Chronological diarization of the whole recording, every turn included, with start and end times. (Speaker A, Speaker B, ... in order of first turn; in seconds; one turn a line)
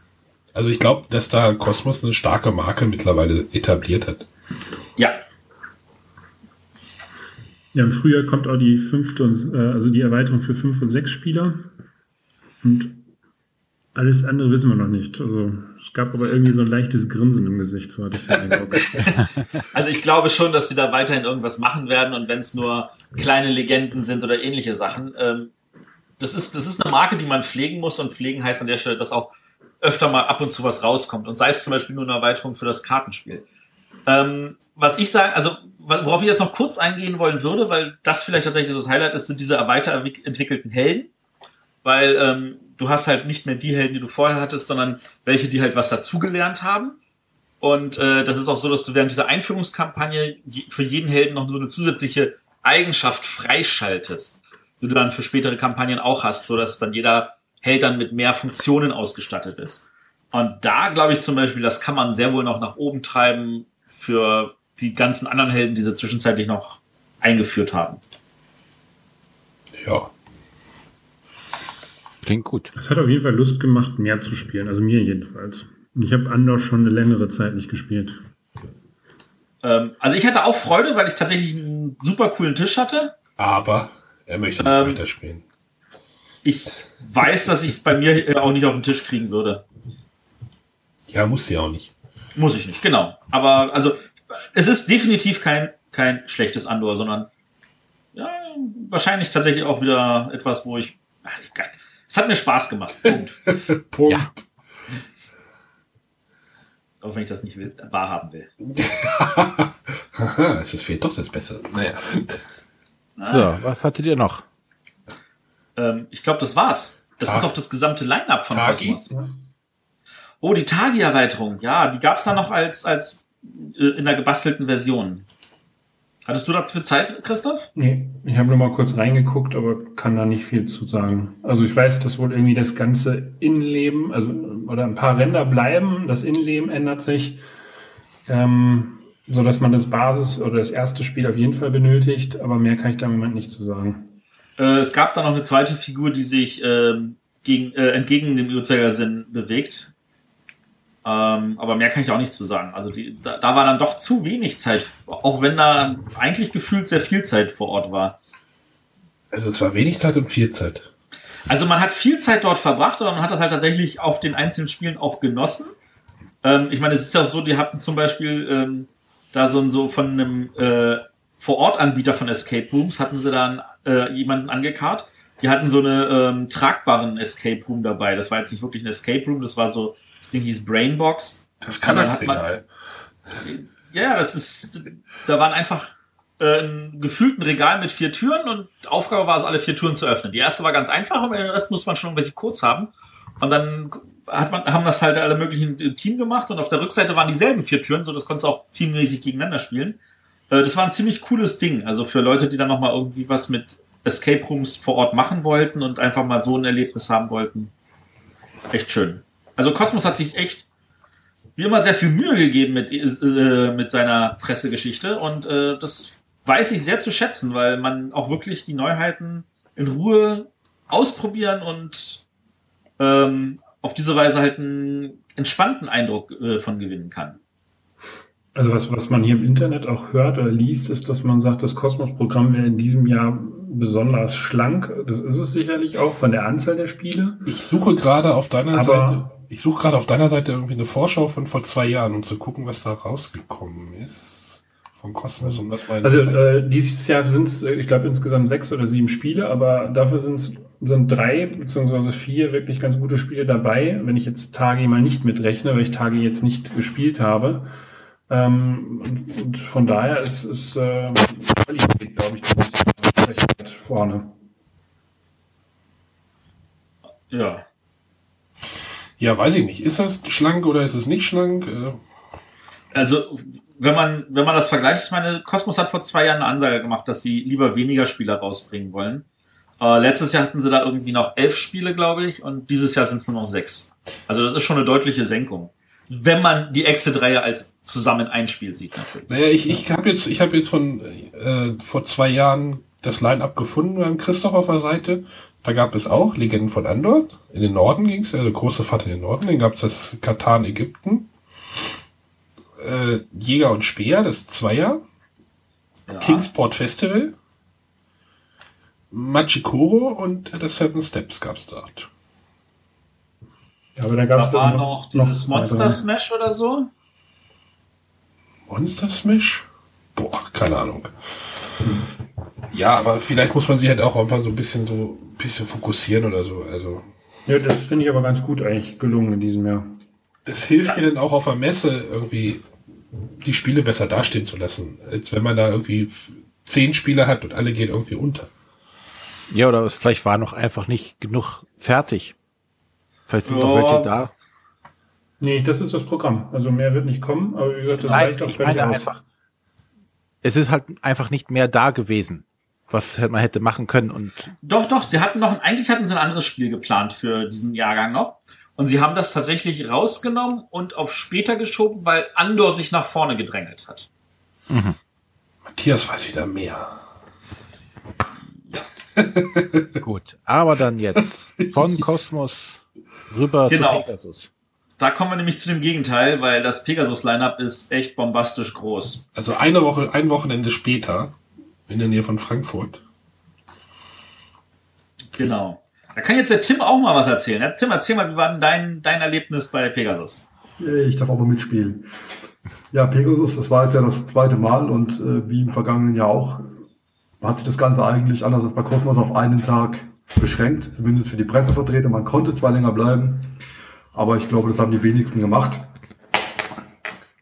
Speaker A: 0.5-4.3
Speaker B: 7.7-11.7
Speaker B: 12.6-13.1
Speaker B: 13.9-19.1
Speaker C: 19.7-25.5
Speaker C: 26.2-33.4
Speaker C: 34.0-41.1
Speaker C: 41.8-47.0
Speaker C: 47.6-68.0
Speaker A: 69.8-70.1
Speaker D: 72.2-72.7
Speaker B: 72.8-78.2
Speaker C: 79.6-83.1
Speaker A: 83.4-85.4
Speaker C: 84.6-85.0
Speaker C: 86.4-89.6
Speaker A: 91.1-91.9
Speaker C: 92.3-97.3
Speaker C: 98.1-103.5
Speaker A: 103.5-104.4
Speaker C: 107.0-108.5
Speaker A: 108.7-112.4
Speaker C: 113.2-113.5
Speaker D: 113.2-114.4
Speaker C: 115.8-119.1
Speaker A: 118.5-119.0
Speaker C: 120.4-125.2
Speaker C: 126.2-127.7
Speaker B: 127.8-137.4
Speaker B: 138.3-144.1
Speaker C: 144.6-149.9
Speaker C: 151.0-158.2
Speaker A: 159.3-160.9
Speaker C: 161.5-165.7
Speaker C: 166.4-182.4
Speaker A: 181.6-182.6
Speaker C: 183.4-200.0
Speaker C: 200.5-207.7
Speaker C: 208.7-210.7
Speaker C: 211.6-222.2
Speaker C: 223.0-227.4
Speaker B: 228.5-237.5
Speaker A: 237.4-246.5
Speaker B: 238.7-239.3
Speaker B: 245.4-257.7
Speaker B: 258.3-264.3
Speaker C: 267.3-267.6
Speaker A: 269.2-272.0
Speaker C: 272.9-279.2
Speaker C: 279.8-289.3
Speaker A: 289.3-301.3
Speaker A: 302.8-305.0
Speaker C: 306.1-306.5
Speaker A: 306.2-307.3
Speaker A: 309.1-312.1
Speaker B: 314.0-316.0
Speaker C: 314.4-316.9
Speaker A: 318.7-321.1
Speaker A: 322.7-327.1
Speaker B: 327.4-330.0
Speaker A: 330.4-332.6
Speaker A: 333.4-338.5
Speaker D: 339.5-342.3
Speaker D: 343.3-344.3
Speaker C: 343.4-344.1
Speaker B: 345.4-349.1
Speaker C: 348.0-348.3
Speaker D: 348.1-349.2
Speaker D: 350.4-354.5
Speaker C: 354.6-364.1
Speaker D: 364.7-365.0
Speaker A: 365.7-367.0
Speaker A: 369.1-370.0
Speaker D: 370.0-374.5
Speaker A: 371.5-372.0
Speaker C: 373.7-374.1
Speaker C: 375.0-379.2
Speaker A: 379.3-383.0
Speaker C: 385.3-390.5
Speaker E: 390.8-392.1
Speaker E: 392.9-396.7
Speaker E: 397.4-403.5
Speaker E: 404.1-405.9